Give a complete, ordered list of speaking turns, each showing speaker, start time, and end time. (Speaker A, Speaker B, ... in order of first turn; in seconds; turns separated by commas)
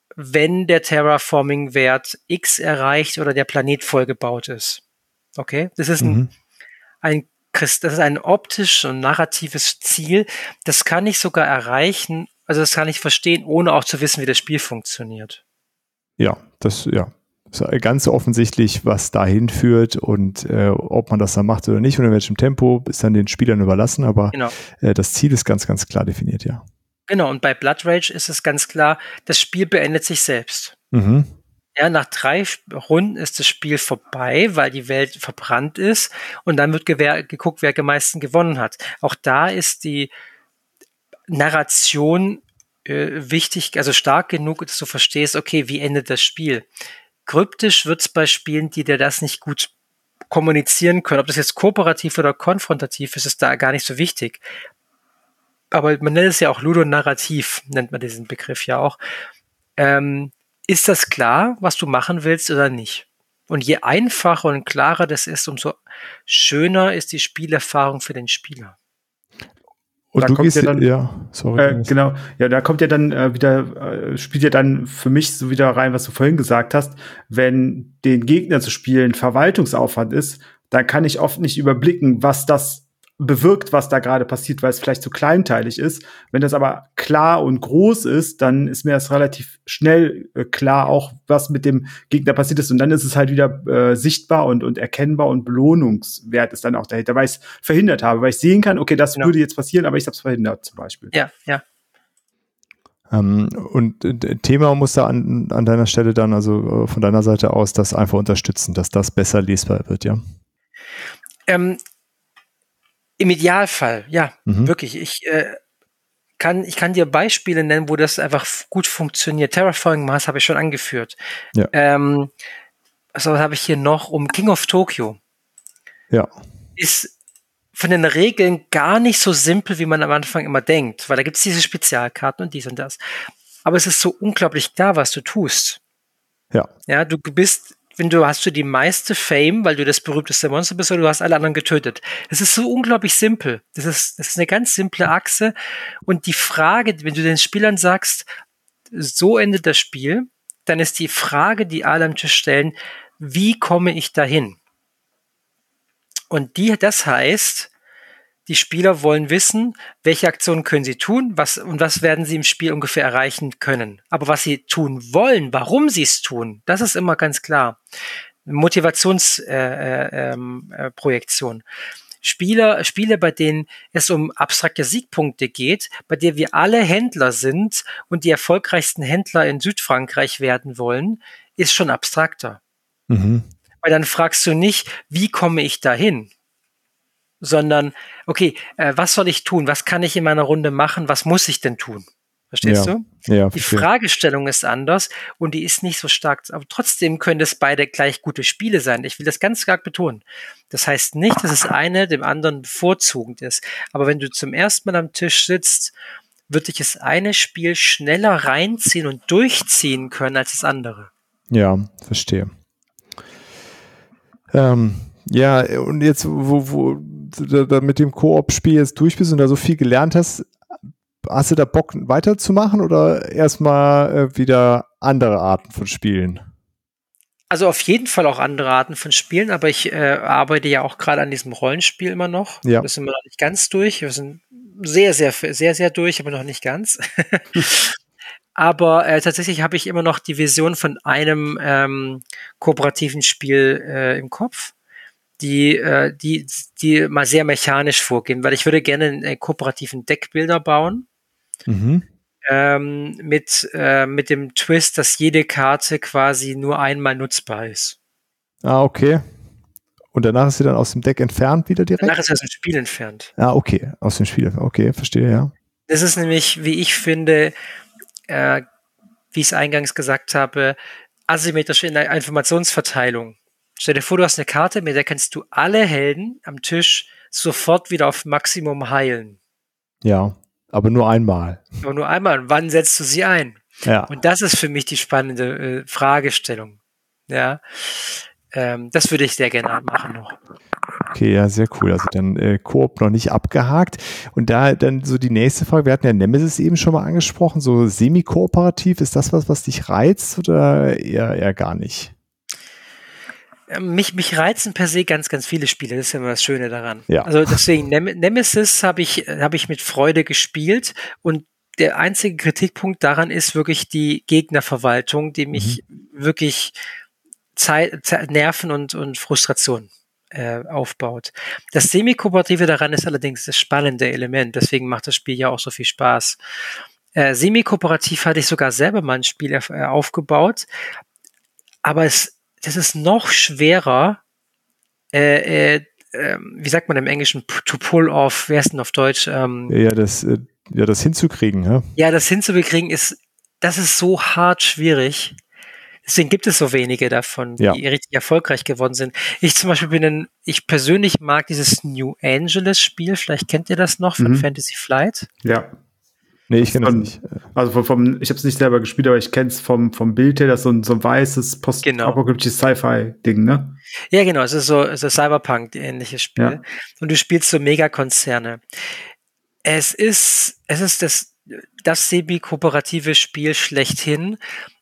Speaker A: 0.1-4.8, Speaker A: 5.4-6.2, Speaker B: 6.0-6.3, Speaker A: 7.0-15.4, Speaker B: 16.2-26.6, Speaker A: 27.1-30.7, Speaker B: 30.9-31.3, Speaker A: 31.8-40.1, Speaker A: 41.3-46.6, Speaker A: 47.2-49.7, Speaker A: 50.3-54.4, Speaker A: 55.7-59.0, Speaker A: 59.8-68.7, Speaker B: 70.1-71.9, Speaker C: 70.2-70.9, Speaker C: 71.6-101.1, Speaker A: 101.1-101.6, Speaker B: 103.1-110.2, Speaker A: 111.5-111.8, Speaker A: 113.2-115.6, Speaker B: 114.5-114.7, Speaker A: 116.4-121.2, Speaker A: 121.7-122.3, Speaker A: 123.1-125.2, Speaker A: 126.8-127.1, Speaker A: 127.7-133.0, Speaker A: 133.6-135.8, Speaker A: 136.9-145.5, Speaker A: 146.1-148.3, Speaker A: 148.9-154.6, Speaker A: 156.3-157.7, Speaker A: 158.5-167.8, Speaker A: 168.4-171.6, Speaker A: 172.2-182.6, Speaker B: 183.1-183.5, Speaker A: 183.8-186.3, Speaker A: 187.4-205.9, Speaker B: 192.6-193.8, Speaker A: 206.5-211.1, Speaker B: 211.5-212.5, Speaker B: 214.5-220.5, Speaker B: 221.2-226.4, Speaker A: 227.5-237.9, Speaker A: 238.6-244.7, Speaker A: 245.4-251.1, Speaker B: 251.7-252.0, Speaker A: 252.5-257.9, Speaker B: 258.6-259.2, Speaker B: 260.1-262.2, Speaker A: 262.0-263.3, Speaker B: 263.4-265.5, Speaker A: 265.9-267.5, Speaker A: 268.3-268.6, Speaker A: 269.3-270.8, Speaker A: 271.3-279.4, Speaker B: 280.0-281.6, Speaker A: 281.8-286.8, Speaker B: 283.8-284.1, Speaker A: 287.3-290.4, Speaker B: 291.1-302.1, Speaker A: 303.7-316.7, Speaker B: 307.1-307.6, Speaker B: 315.5-315.8, Speaker A: 317.5-326.4, Speaker A: 327.1-330.6, Speaker A: 331.8-334.2, Speaker A: 335.1-339.7, Speaker B: 339.7-341.9, Speaker A: 341.9-345.4, Speaker A: 346.0-355.3, Speaker C: 354.2-354.5, Speaker C: 355.4-355.7, Speaker B: 356.5-357.4, Speaker C: 356.8-363.8, Speaker A: 361.8-362.2, Speaker A: 364.1-368.6, Speaker A: 369.6-374.4